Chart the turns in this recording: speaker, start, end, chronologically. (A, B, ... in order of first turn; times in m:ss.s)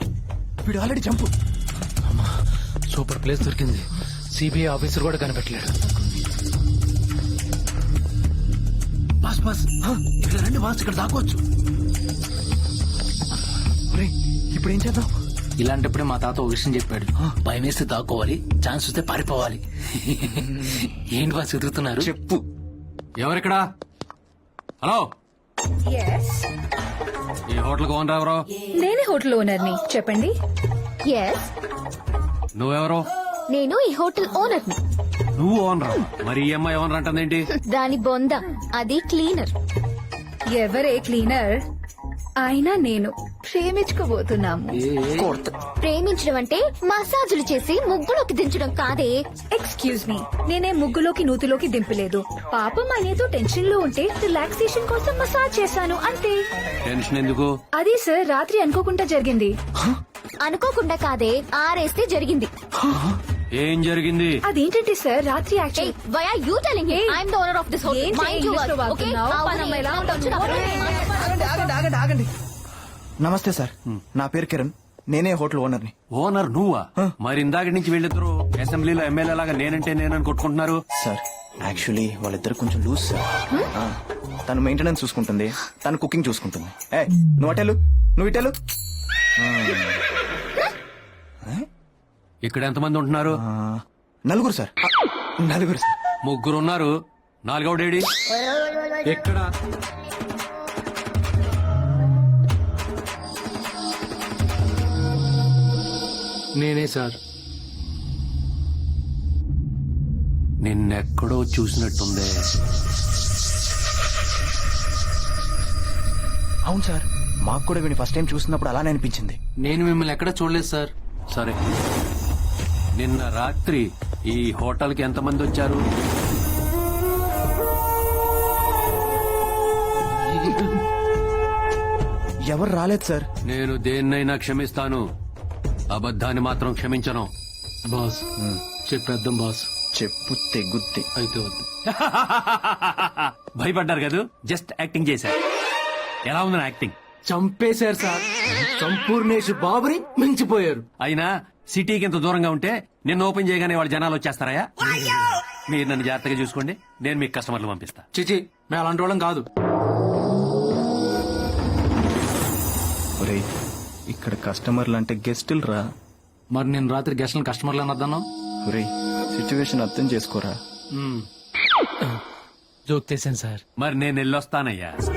0:00.6-0:01.3 A
0:02.0-0:02.4 B
0:02.9-0:05.8 B
0:09.2-0:11.4 B
0:13.9-0:15.1 A
0:15.6-0:22.1 B
0:22.0-0:22.4 A
0:23.2-0:23.6 C
0:25.9-0:26.5 D
0:27.5-0:28.4 C
0:28.8-0:30.3 D
0:31.1-0:31.5 E
0:32.6-0:33.1 C
0:33.5-0:34.8 E
0:35.4-0:37.5 C
0:37.7-0:39.5 E
0:40.5-0:41.6 D
0:42.4-0:44.7 D
0:44.7-0:45.4 B
0:45.2-0:45.6 A
0:45.8-0:49.2 E
0:49.5-0:56.4 D
0:56.8-0:57.5 C
0:57.8-0:59.6 D
1:00.4-1:02.5 E
1:02.8-1:03.2 A
1:03.6-1:04.4 C
1:04.5-1:06.0 D
1:05.8-1:11.7 E
1:06.9-1:07.2 D
1:07.8-1:10.9 D
1:11.0-1:12.3 A
1:13.2-1:15.9 A
1:16.1-1:20.8 C
1:20.9-1:28.6 A
1:29.4-1:30.0 A
1:32.4-1:33.4 C
1:33.3-1:34.8 A
1:35.4-1:36.0 A
1:36.2-1:36.9 C
1:37.4-1:38.1 C
1:39.0-1:39.5 B
1:46.6-1:47.2 B
1:50.6-1:52.3 C
1:56.7-1:59.4 A
1:59.6-2:00.9 B
2:01.3-2:01.6 C
2:03.0-2:05.8 C
2:10.2-2:10.7 B
2:12.5-2:13.3 A
2:13.5-2:15.0 C
2:15.9-2:17.3 C
2:17.9-2:18.2 B
2:18.8-2:19.7 B
2:20.0-2:21.1 A
2:21.2-2:21.7 B
2:21.9-2:25.4 C
2:26.3-2:27.0 C
2:27.3-2:30.9 B
2:31.0-2:38.0 C
2:38.1-2:39.5 B
2:43.2-2:43.5 A
2:44.1-2:45.8 A
2:46.5-2:48.3 B
2:48.6-2:50.6 A
2:51.0-2:51.3 B
2:52.9-2:53.6 B
2:53.8-2:55.0 C